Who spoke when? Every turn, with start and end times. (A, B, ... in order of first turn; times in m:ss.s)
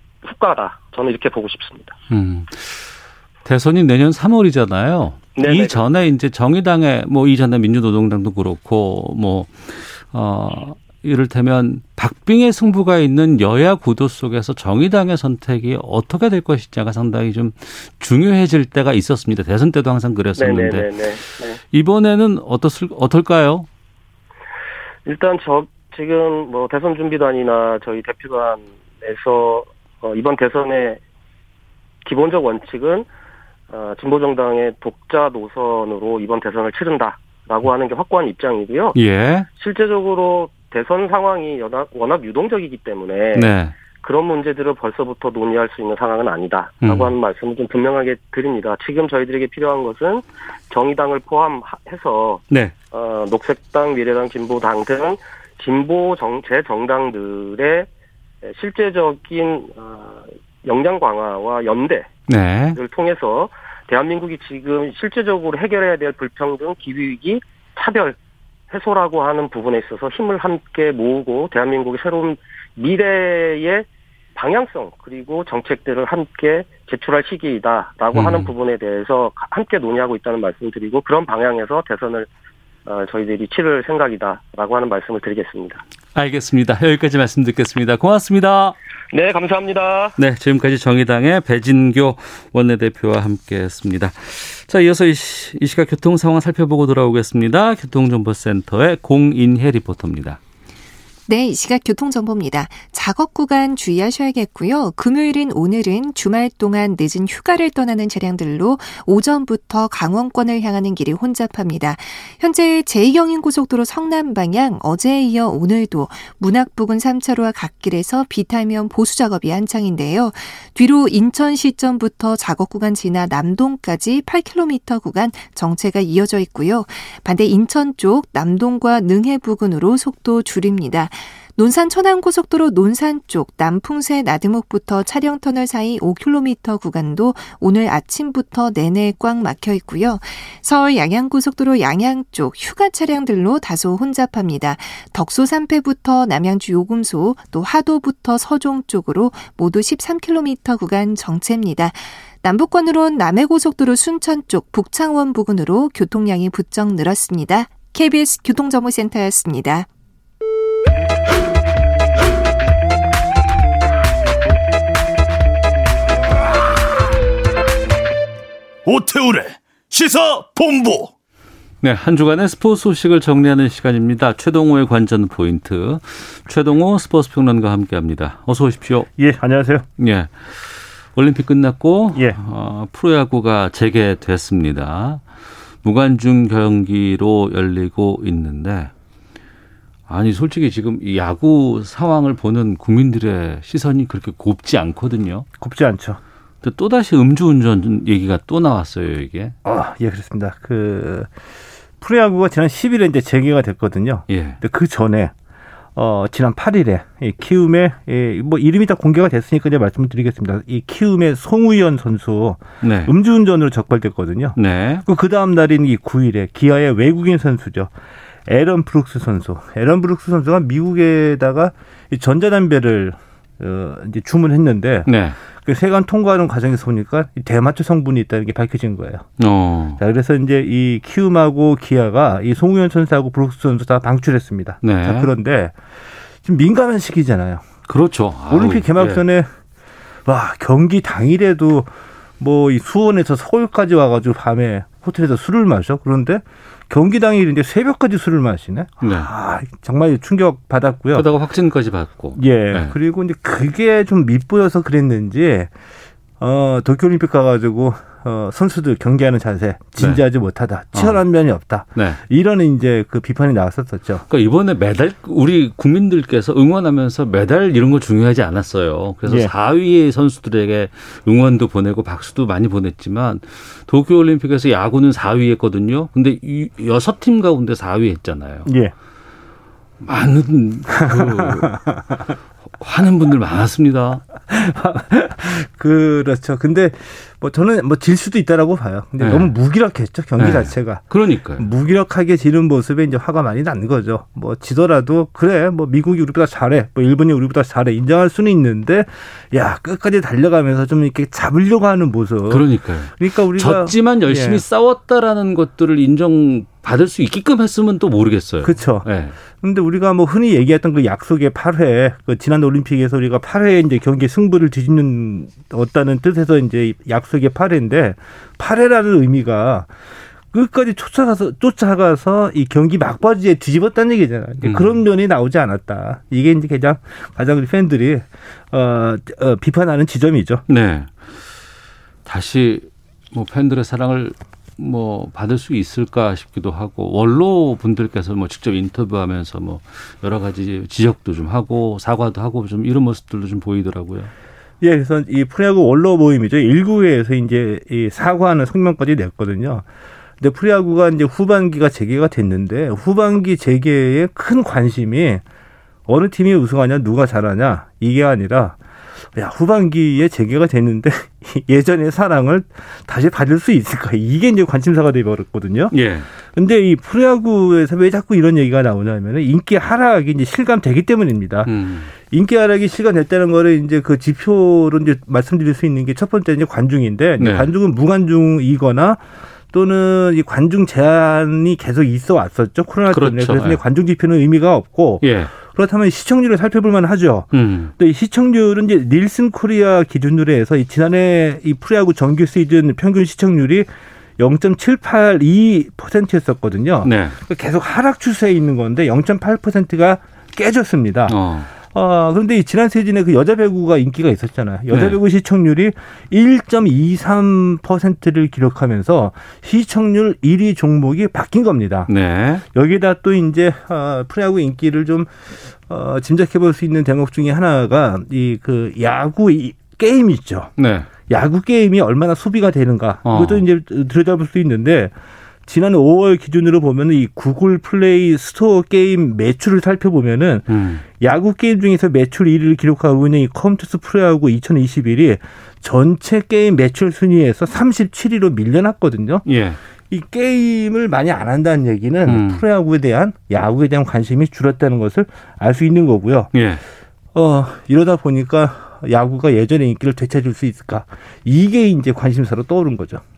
0:00.2-0:01.9 A
0:02.1-0:20.9 B
0:05.3-0:05.8 A
0:20.4-0:21.6 A
0:21.7-0:23.7 B
0:25.0-0:31.0 A
0:32.0-0:33.0 A
0:33.7-0:39.0 A
0:38.9-0:39.5 B
0:39.6-0:57.9 A
0:43.3-0:43.7 B
0:46.8-0:47.1 B
0:58.4-1:02.1 A
1:02.3-1:02.8 B
1:02.7-1:08.2 A
1:08.7-1:22.3 A
1:18.1-1:18.5 B
1:22.8-1:25.8 A
1:26.1-1:28.7 B
1:29.1-1:30.2 A
1:30.2-1:40.4 B
1:41.3-2:39.9 C
2:48.8-2:51.1 D
2:51.8-2:59.1 B
2:59.2-2:59.8 E
3:00.0-3:05.2 B
3:05.8-3:08.9 B
3:10.1-3:15.5 B
3:15.6-3:16.2 E
3:16.6-3:19.6 B
3:19.6-3:21.3 E
3:22.0-3:25.3 E
3:24.3-3:24.6 B
3:26.0-3:37.9 E
3:32.8-3:33.1 B
3:34.6-3:35.0 B
3:38.5-3:49.2 E
3:45.0-3:45.4 B
3:49.4-3:50.0 B
3:50.0-3:55.8 E
3:54.8-3:55.3 B
3:56.4-3:57.7 E
3:57.9-3:59.2 B
3:58.5-3:59.5 E
4:00.2-4:01.9 E
4:02.4-4:11.3 E
4:09.0-4:09.3 B
4:11.1-4:12.9 B
4:12.4-4:15.7 E
4:16.4-4:24.2 E
4:20.9-4:21.2 B
4:24.3-4:38.7 B
4:38.6-4:38.9 E
4:40.0-4:42.0 B
4:42.7-4:44.2 B
4:44.5-4:51.0 E
4:49.2-4:49.5 B
4:50.4-4:51.6 B
4:51.6-5:04.6 E
5:02.5-5:09.4 B
5:08.6-5:09.0 E
5:09.6-5:19.9 E
5:20.5-5:30.6 E
5:24.6-5:25.0 B
5:30.7-5:31.1 B
5:32.2-5:44.3 B
5:44.8-5:49.8 E
5:50.4-5:55.4 E
5:56.1-5:58.8 E
5:59.3-6:05.9 E
6:05.9-6:06.3 B
6:06.5-6:11.7 E
6:11.6-6:12.1 B
6:12.3-6:19.2 E
6:17.4-6:17.7 B
6:19.7-6:33.9 E
6:23.1-6:23.8 B
6:25.2-6:25.5 B
6:27.5-6:27.9 B
6:34.4-6:41.4 E
6:37.0-6:37.4 B
6:41.3-6:41.7 B
6:41.9-6:52.1 E
6:44.9-6:45.2 B
6:52.1-6:52.6 B
6:52.7-6:55.3 E
6:55.9-7:00.7 E
7:00.8-7:01.1 B
7:01.3-7:05.1 E
7:03.2-7:03.6 B
7:05.6-7:10.6 E
7:10.7-7:11.0 B
7:11.2-7:19.4 E
7:19.4-7:19.8 B
7:20.1-7:26.5 E
7:22.2-7:22.6 B
7:26.5-7:26.8 B
7:27.3-7:33.2 E